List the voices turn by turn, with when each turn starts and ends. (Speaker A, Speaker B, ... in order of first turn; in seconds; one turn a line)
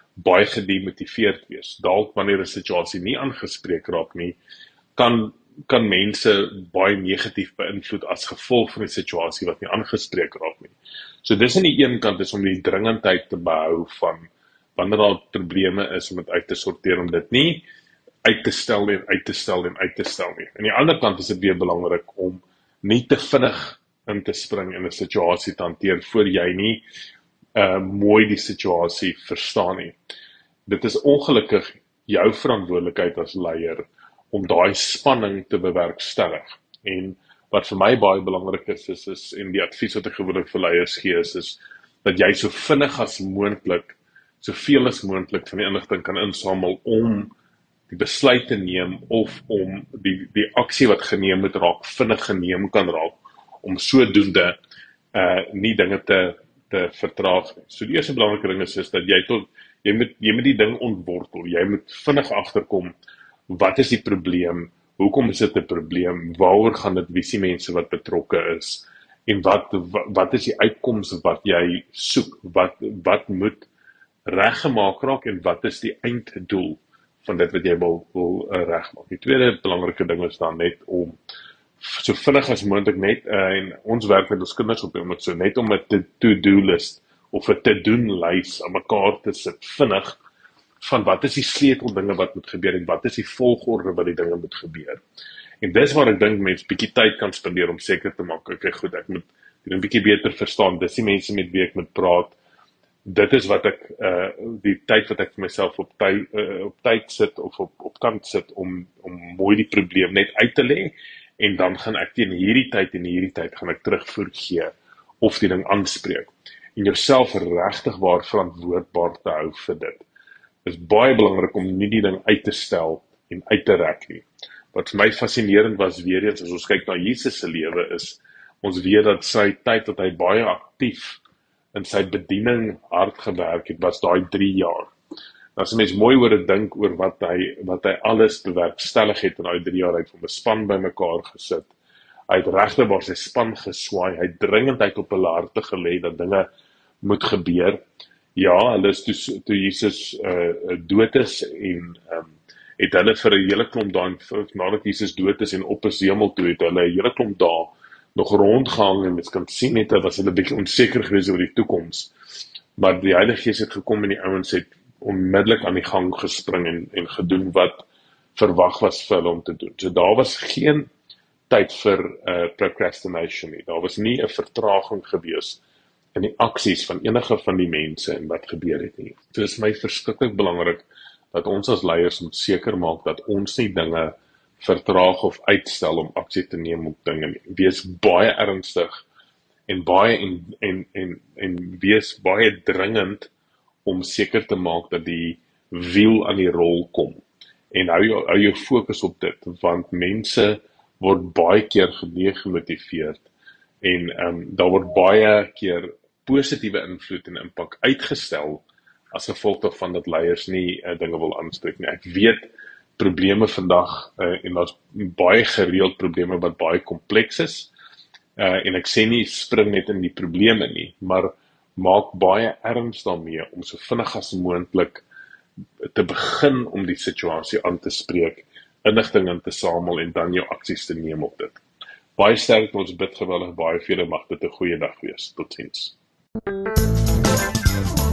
Speaker A: 0.2-4.4
Speaker A: 5.0-17.6
Speaker A: 18.2-26.9
Speaker A: 27.6-30.0
Speaker A: 30.6-47.3
Speaker A: 47.9-54.6
Speaker A: 55.1-62.9
Speaker A: 63.5-73.7
Speaker A: 74.2-81.2
Speaker A: 81.8-90.2
Speaker A: 90.8-95.0
Speaker A: 95.6-102.4
Speaker A: 103.0-120.0
Speaker A: 120.6-131.2
Speaker A: 131.7-134.9
Speaker A: 135.6-141.7
Speaker A: 142.3-146.5
Speaker A: 147.0-147.8
Speaker A: 148.3-162.1
Speaker A: 162.8-170.9
Speaker A: 171.5-175.6
Speaker A: 176.1-189.0
Speaker A: 189.7-193.3
Speaker A: 193.8-203.2
Speaker A: 203.8-217.7
Speaker A: 218.4-225.0
Speaker A: 225.8-231.6
Speaker A: 232.2-236.0